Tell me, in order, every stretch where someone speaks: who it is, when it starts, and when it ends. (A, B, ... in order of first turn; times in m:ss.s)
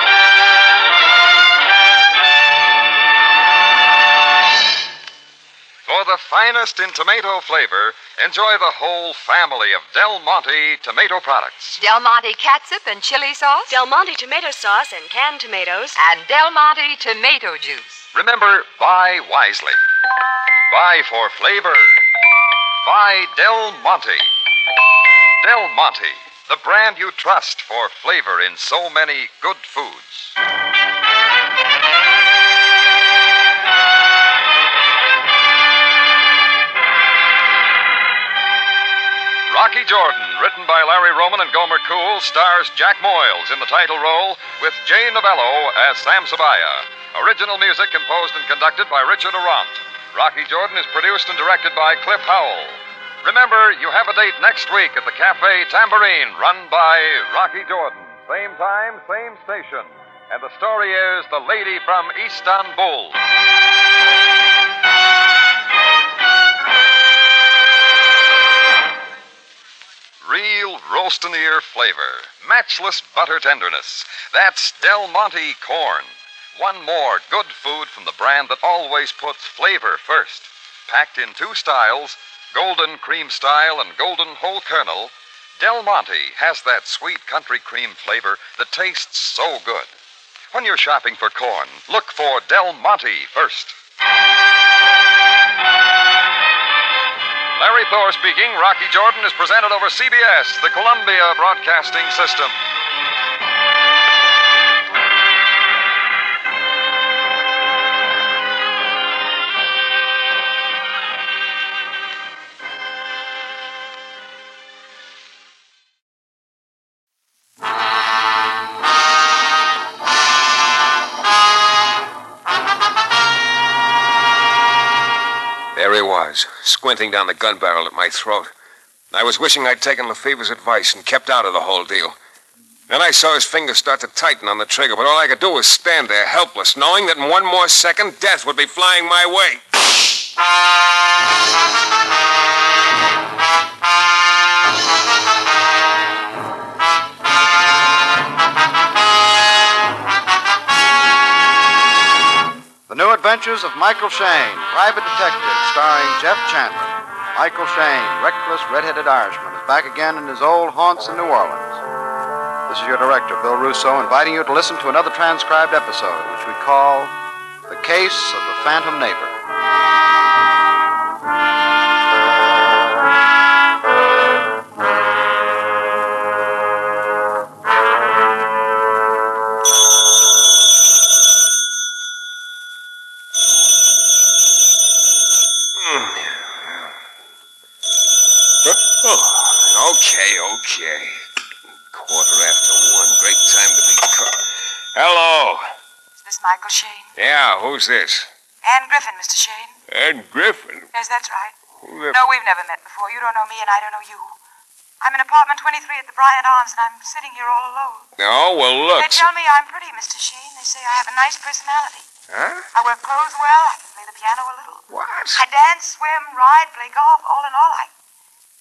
0:05.8-0:11.8 A
0:11.8-0:13.8 B
0:13.7-0:16.0 C
0:15.9-0:18.0 B
0:18.1-0:19.8 A
0:20.7-0:22.0 A
0:22.8-0:24.3 A
0:25.4-0:30.3 A
0:39.5-1:03.2 A
1:10.2-1:29.9 A
1:30.5-1:33.7 A
1:37.6-1:42.6 A
2:05.7-2:08.5 D
2:09.1-2:12.2 D
2:12.9-2:19.6 D
2:32.9-2:41.8 E
2:42.7-2:47.1 E
2:47.7-2:49.3 E
3:05.8-3:06.9 D
3:08.6-3:11.2 D
3:11.9-3:14.4 D
3:14.9-3:15.6 D
3:16.2-3:17.1 F
3:17.2-3:18.3 D
3:18.6-3:19.7 F
3:19.9-3:20.9 D
3:20.9-3:21.5 F
3:21.8-3:22.2 D
3:22.1-3:24.4 F
3:25.0-3:28.1 F
3:28.2-3:29.3 D
3:28.9-3:32.1 F
3:32.3-3:32.7 D
3:32.7-3:37.9 F
3:34.9-3:35.4 D